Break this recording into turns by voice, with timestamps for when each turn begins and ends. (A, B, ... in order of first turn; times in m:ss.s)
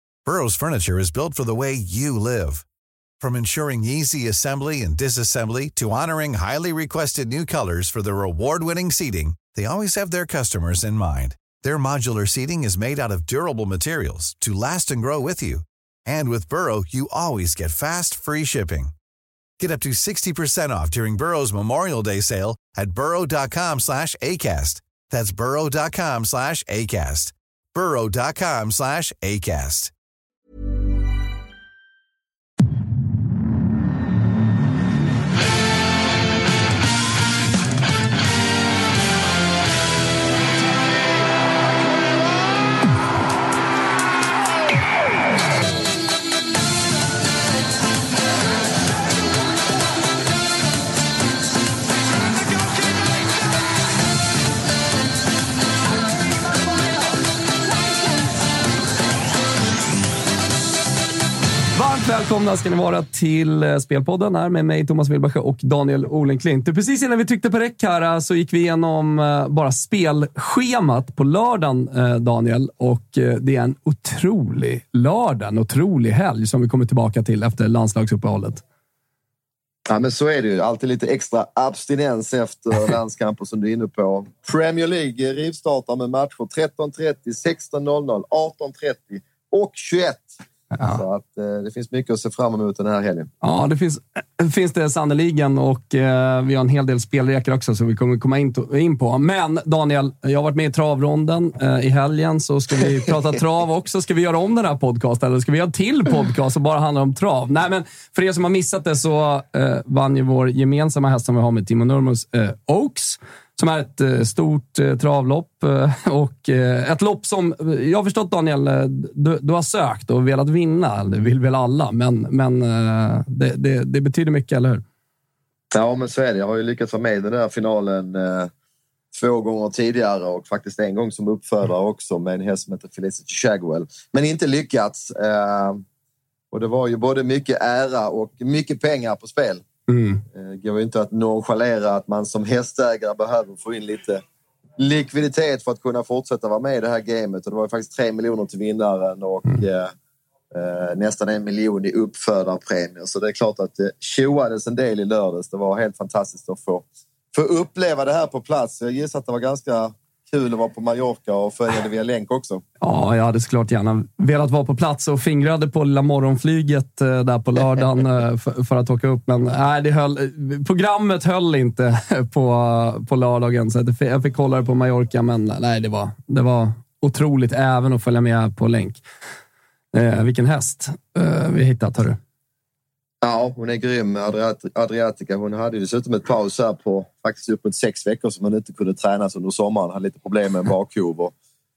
0:00.2-0:02.6 A
0:03.2-0:18.9 A
0:19.6-0:29.9 A
1:01.7-1:18.6 B
1:19.9-1:33.3 C
1:30.7-1:31.0 B
1:33.4-2:04.8 B
2:05.7-2:08.5 C
2:09.1-2:15.8 C
2:16.5-2:19.6 C
2:19.9-2:20.2 B
2:20.3-2:24.2 C
2:24.8-2:29.9 C
2:30.5-2:42.6 C
2:42.8-2:59.0 B
2:59.9-3:02.2 B
3:03.2-3:11.3 C